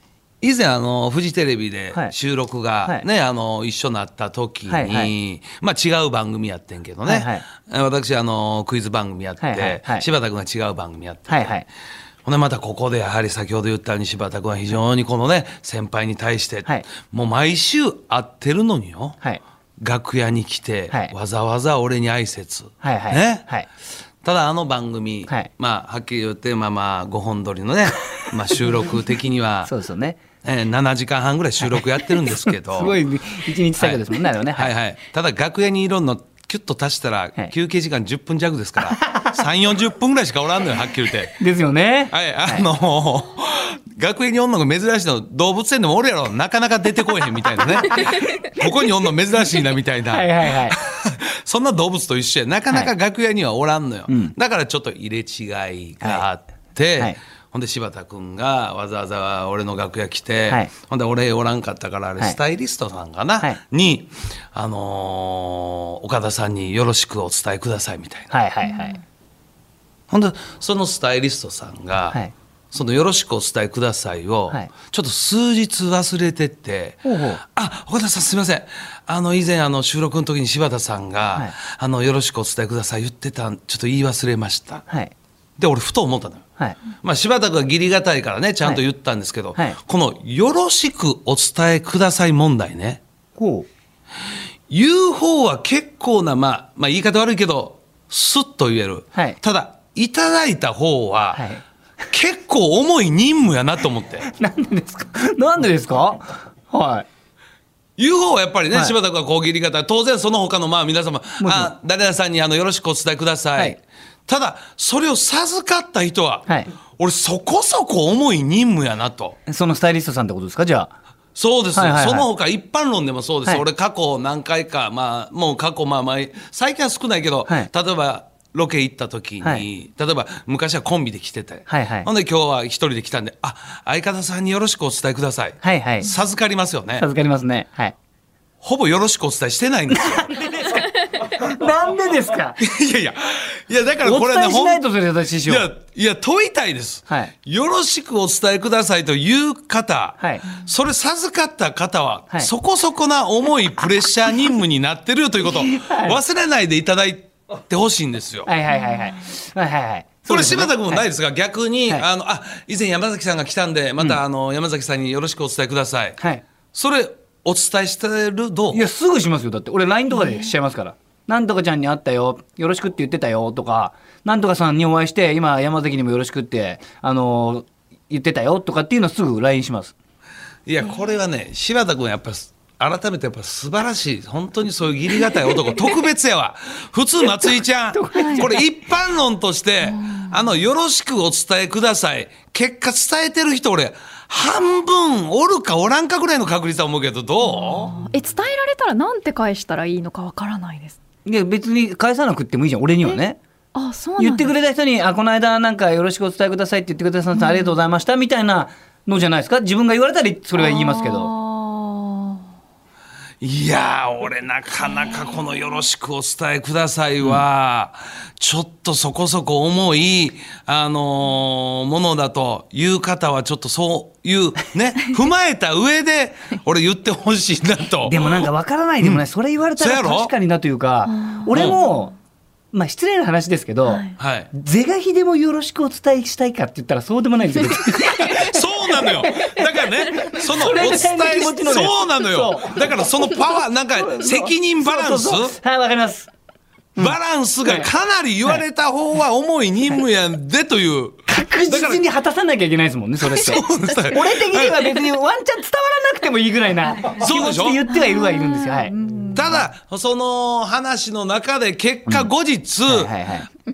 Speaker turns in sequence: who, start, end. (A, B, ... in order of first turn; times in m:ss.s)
0:00.4-0:11.5 A
0:04.7-0:05.1 B
0:07.0-0:07.4 B
0:09.4-0:10.1 B
0:11.3-0:11.6 B
0:12.2-0:19.2 A
0:19.8-0:23.5 A
0:22.8-0:23.7 B
0:24.2-0:29.7 A
0:29.6-0:30.2 B
0:30.4-0:33.0 A
0:32.4-0:34.7 B
0:33.8-0:41.4 A
0:38.8-0:39.4 B
0:41.4-0:42.6 B
0:42.1-1:08.3 A
0:50.1-0:50.8 B
0:54.1-0:54.3 B
0:56.0-0:56.2 B
1:08.3-1:09.0 B
1:08.6-1:09.0 C
1:10.1-1:12.2 A
1:12.7-1:24.8 A
1:17.0-1:17.4 B
1:24.9-1:25.1 B
1:25.6-1:33.0 A
1:33.4-1:33.7 B
1:34.7-1:41.4 A
1:41.3-1:41.6 B
1:42.1-1:44.3 A
1:44.3-1:47.0 B
1:48.0-1:59.4 A
1:51.4-1:51.7 B
1:59.5-2:00.9 B
2:01.4-2:17.0 A
2:01.7-2:02.3 B
2:11.7-2:12.1 B
2:15.6-2:16.1 B
2:17.0-2:17.9 B
2:18.6-2:20.3 A
2:19.9-2:22.6 B
2:22.6-2:24.8 A
2:24.0-2:25.7 B
2:25.4-2:38.5 A
2:30.2-2:30.4 B
2:35.4-2:36.2 B
2:38.4-2:41.0 B
2:40.3-2:46.2 A
2:46.2-2:46.4 B
2:46.7-2:48.8 A
2:48.7-2:59.9 B
2:50.1-2:50.5 C
3:00.6-3:17.9 A
3:07.2-3:08.7 B
3:08.1-3:08.5 C
3:09.8-3:10.5 C
3:17.4-3:21.0 C
3:21.2-3:23.4 B
3:23.7-3:24.5 C
3:24.2-3:31.3 B
3:27.3-3:27.7 C
3:30.5-3:32.4 C
3:33.4-3:48.5 A
3:48.0-3:52.1 B
3:49.8-3:50.3 A
3:51.0-3:52.0 C
3:51.5-3:51.8 A
3:52.7-3:59.5 B
3:53.8-3:54.2 C
3:54.2-3:54.5 A
3:58.0-4:05.6 A
4:00.4-4:03.3 B
4:03.9-4:06.3 B
4:07.0-4:07.9 B
4:07.0-4:12.0 A
4:11.3-4:18.9 B
4:13.2-4:15.0 A
4:17.2-4:17.8 A
4:17.9-4:19.6 C
4:19.3-4:23.4 A
4:22.8-4:23.5 B